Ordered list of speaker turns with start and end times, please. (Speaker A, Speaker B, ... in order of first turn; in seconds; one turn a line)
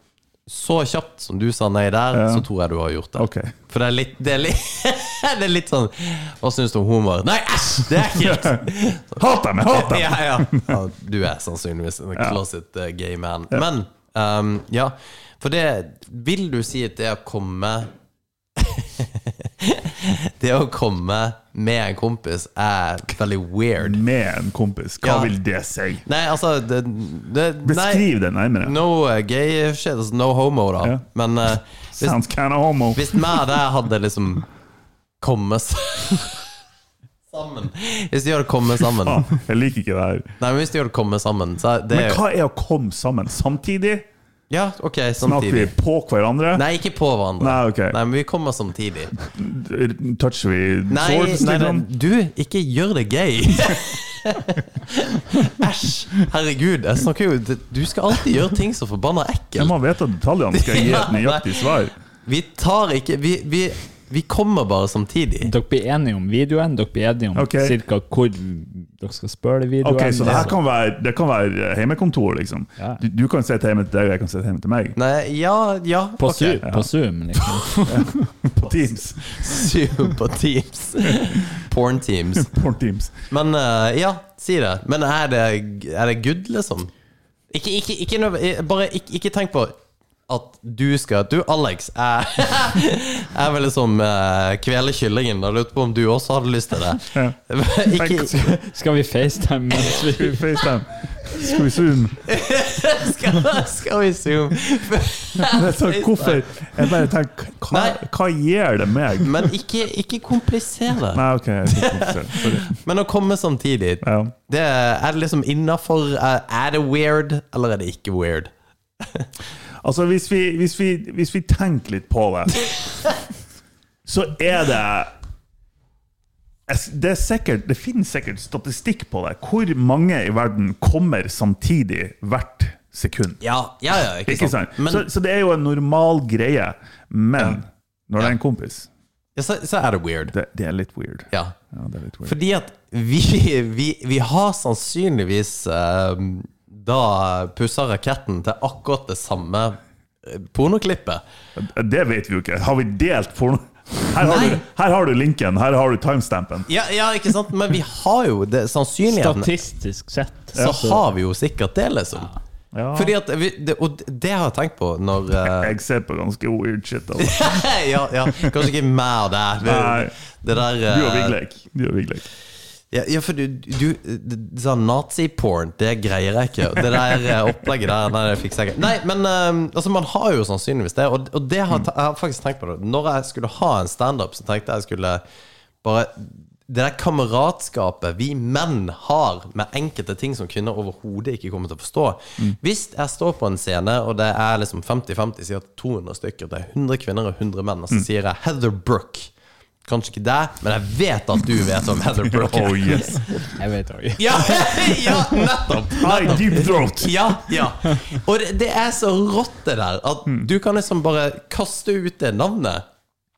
Speaker A: 0.5-17.9
Speaker B: 2.1-2.5
Speaker B: 3.2-3.5
Speaker B: 8.1-10.8
Speaker B: 12.1-12.4
Speaker A: 18.6-24.0
Speaker B: 23.8-26.0
Speaker A: 25.0-25.3
Speaker A: 26.0-28.1
Speaker B: 27.6-28.8
Speaker A: 28.6-32.2
Speaker B: 32.0-33.4
Speaker A: 32.9-34.5
Speaker A: 35.2-36.4
Speaker A: 37.3-39.3
Speaker B: 39.0-40.3
Speaker A: 40.4-42.2
Speaker B: 41.9-44.1
Speaker A: 44.5-45.7
Speaker B: 45.2-46.6
Speaker A: 46.5-49.1
Speaker B: 47.4-48.0
Speaker B: 49.2-51.9
Speaker A: 50.9-59.7
Speaker B: 59.5-61.9
Speaker A: 60.5-61.7
Speaker A: 62.2-65.5
Speaker C: 65.4-70.5
Speaker B: 67.3-67.8
Speaker B: 69.8-75.0
Speaker A: 70.2-70.5
Speaker A: 75.0-76.7
Speaker C: 76.2-78.3
Speaker B: 76.6-76.9
Speaker B: 77.8-79.6
Speaker A: 79.2-82.5
Speaker B: 82.3-83.2
Speaker A: 83.3-86.9
Speaker A: 87.5-98.6
Speaker B: 97.1-97.3
Speaker B: 98.0-98.2
Speaker C: 98.0-100.6
Speaker B: 99.9-102.3
Speaker A: 102.2-106.7
Speaker B: 105.4-109.5
Speaker A: 107.7-108.0
Speaker A: 109.2-119.3
Speaker B: 111.1-112.7
Speaker B: 114.0-114.3
Speaker B: 119.8-122.7
Speaker B: 124.0-125.1
Speaker B: 126.7-133.4
Speaker A: 133.4-135.1
Speaker B: 134.2-138.9
Speaker A: 139.3-140.3
Speaker B: 140.3-142.3
Speaker A: 142.2-151.2
Speaker B: 151.6-156.7
Speaker A: 154.2-154.6
Speaker A: 156.7-159.5
Speaker C: 159.1-161.0
Speaker A: 160.6-162.3
Speaker B: 162.7-163.1
Speaker A: 162.9-165.7
Speaker B: 165.4-167.7
Speaker A: 167.2-171.4
Speaker B: 169.6-170.2
Speaker B: 170.8-172.2
Speaker A: 172.9-185.2
Speaker A: 185.8-199.3
Speaker A: 199.8-203.5
Speaker B: 202.2-203.4
Speaker C: 203.5-205.3
Speaker A: 204.2-212.8
Speaker B: 206.0-207.3